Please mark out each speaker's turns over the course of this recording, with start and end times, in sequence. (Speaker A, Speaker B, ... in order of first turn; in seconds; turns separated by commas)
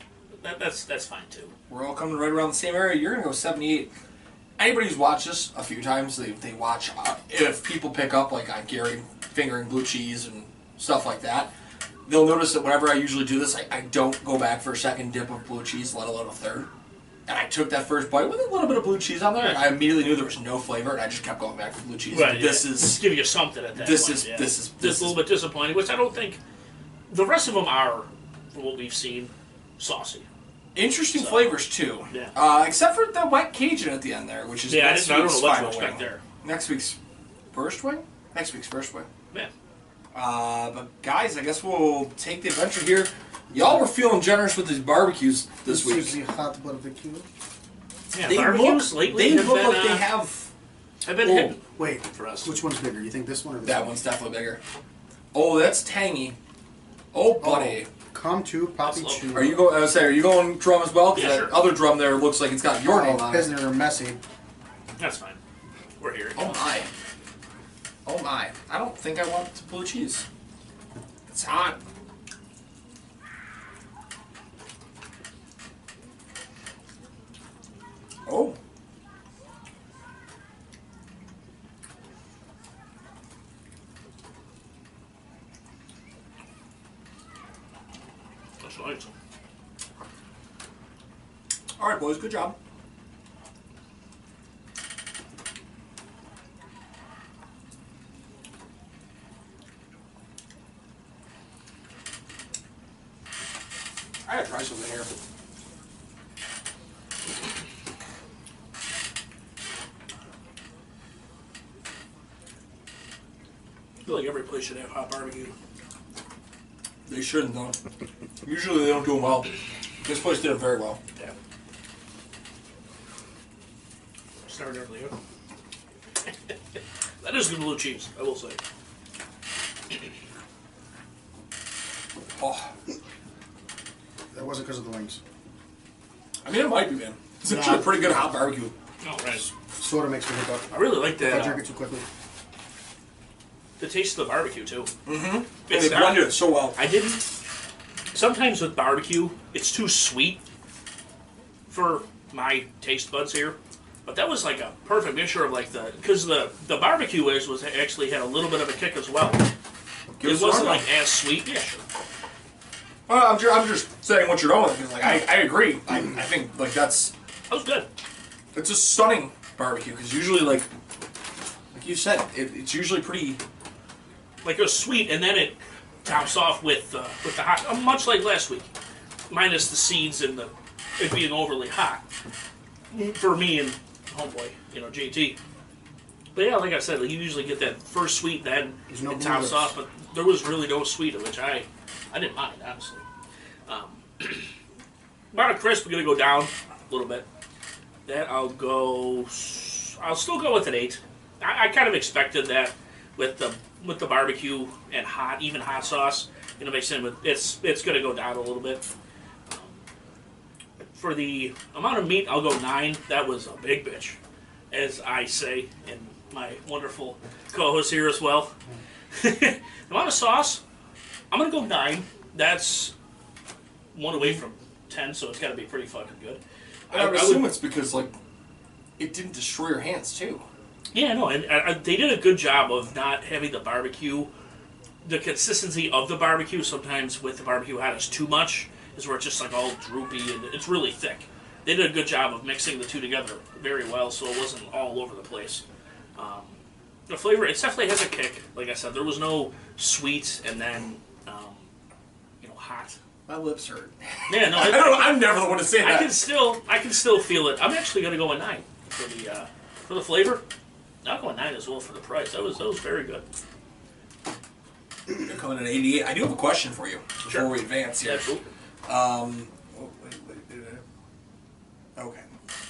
Speaker A: 0.4-1.5, Speaker B: 1.7-3.9, Speaker B: 4.6-11.5, Speaker B: 12.1-16.7, Speaker B: 17.3-23.0, Speaker A: 19.4-19.7, Speaker A: 22.1-26.4, Speaker B: 23.8-25.2, Speaker A: 27.1-30.2, Speaker B: 30.8-37.0, Speaker A: 31.1-31.6, Speaker A: 34.7-36.2, Speaker B: 37.5-39.1, Speaker B: 40.1-46.1, Speaker C: 43.5-43.8, Speaker C: 45.7-47.2, Speaker A: 48.1-50.1, Speaker B: 48.1-50.5, Speaker A: 51.0-52.6, Speaker C: 51.2-54.0, Speaker B: 53.6-54.6, Speaker B: 55.3-56.4, Speaker B: 57.1-57.9, Speaker C: 57.4-59.6, Speaker A: 58.9-59.3, Speaker B: 59.3-63.5, Speaker A: 61.1-61.6, Speaker C: 62.9-64.2, Speaker A: 65.0-65.4, Speaker A: 66.0-66.6, Speaker B: 66.4-66.9, Speaker B: 68.0-70.2, Speaker B: 71.3-71.8, Speaker B: 78.2-78.6, Speaker A: 88.6-89.1, Speaker B: 91.8-92.6, Speaker B: 104.2-105.1, Speaker A: 114.0-115.5, Speaker B: 117.1-117.8, Speaker B: 118.4-119.5, Speaker B: 120.0-121.0, Speaker A: 124.5-125.1, Speaker A: 127.2-128.6, Speaker B: 132.4-132.7, Speaker C: 134.3-135.2, Speaker B: 136.4-138.7, Speaker C: 137.4-138.3, Speaker A: 139.0-139.5, Speaker C: 139.8-142.1, Speaker A: 140.7-141.6, Speaker A: 143.8-144.9, Speaker B: 145.1-146.8, Speaker A: 145.7-147.3, Speaker A: 148.1-150.4, Speaker A: 151.7-159.5, Speaker B: 160.2-160.8, Speaker A: 160.2-161.8, Speaker B: 163.1-167.1, Speaker A: 167.5-167.9, Speaker B: 168.5-170.7, Speaker B: 171.7-173.4, Speaker A: 174.4-178.7, Speaker A: 179.3-182.1, Speaker A: 182.9-185.4, Speaker A: 186.3-193.0, Speaker C: 188.9-189.7, Speaker A: 193.7-194.5, Speaker A: 195.3-197.2, Speaker A: 198.1-208.9, Speaker A: 209.5-209.8, Speaker A: 210.9-214.2, Speaker A: 214.7-218.5, Speaker A: 219.1-220.6, Speaker A: 221.3-222.9, Speaker A: 223.9-227.5, Speaker B: 226.9-228.1, Speaker B: 229.0-230.4, Speaker A: 230.9-234.3, Speaker A: 235.0-245.6, Speaker A: 246.2-246.6, Speaker A: 247.1-251.7, Speaker A: 252.4-253.0, Speaker B: 253.3-256.1, Speaker A: 254.3-255.2, Speaker A: 255.8-260.4, Speaker A: 261.0-263.2, Speaker B: 265.2-268.2, Speaker A: 267.2-268.5, Speaker B: 268.9-270.8, Speaker B: 272.0-272.2